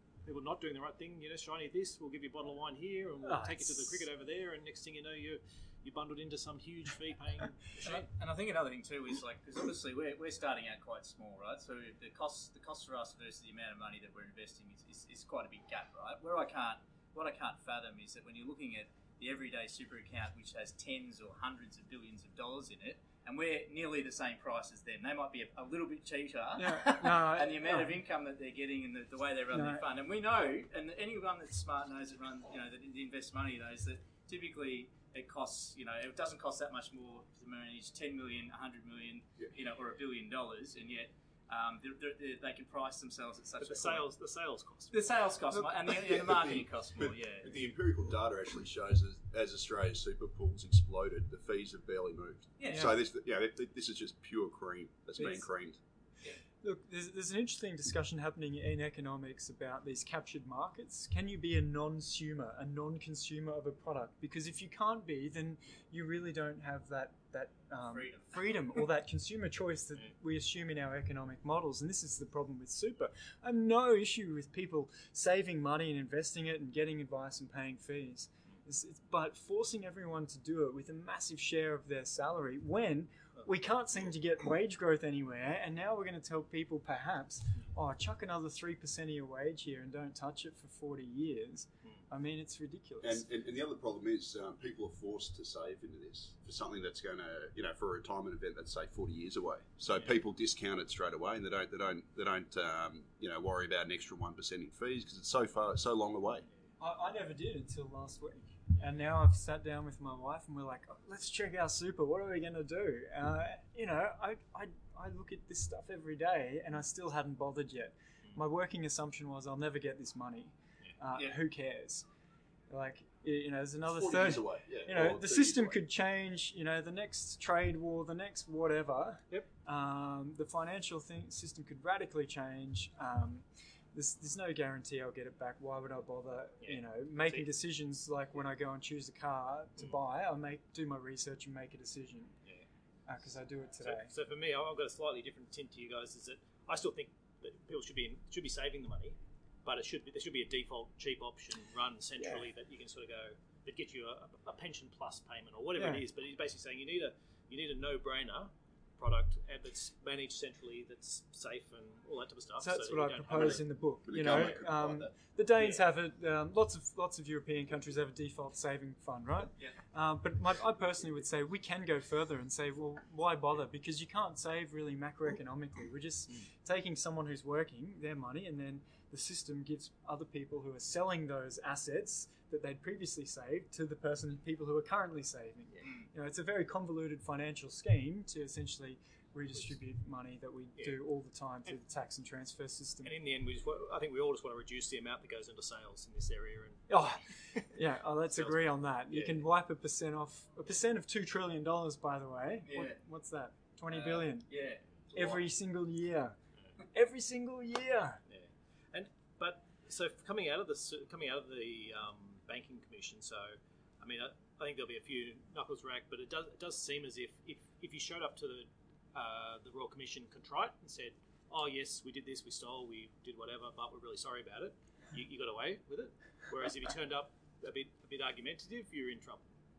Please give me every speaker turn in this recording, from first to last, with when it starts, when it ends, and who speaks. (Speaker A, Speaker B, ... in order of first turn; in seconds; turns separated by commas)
Speaker A: 0.2-8.1, Speaker B: 3.2-4.0, Speaker C: 7.8-44.0, Speaker B: 26.6-27.9, Speaker B: 29.5-29.8, Speaker A: 43.6-44.9, Speaker C: 44.9-47.6, Speaker D: 46.0-55.8, Speaker C: 52.6-52.9, Speaker B: 55.2-55.5, Speaker B: 56.6-93.2, Speaker C: 67.8-68.7, Speaker D: 93.0-106.5, Speaker B: 106.8-122.0, Speaker B: 122.7-142.3, Speaker D: 123.9-125.8, Speaker A: 136.6-137.5, Speaker B: 143.1-144.1, Speaker A: 143.8-163.6, Speaker B: 152.2-152.4, Speaker B: 155.8-156.0, Speaker B: 162.6-193.1, Speaker D: 163.3-165.1, Speaker A: 164.2-164.6, Speaker A: 193.0-197.7, Speaker B: 196.9-204.5, Speaker A: 198.3-199.4, Speaker C: 202.6-203.0, Speaker C: 203.9-205.4, Speaker B: 205.1-206.3, Speaker B: 206.9-208.2, Speaker A: 208.3-229.5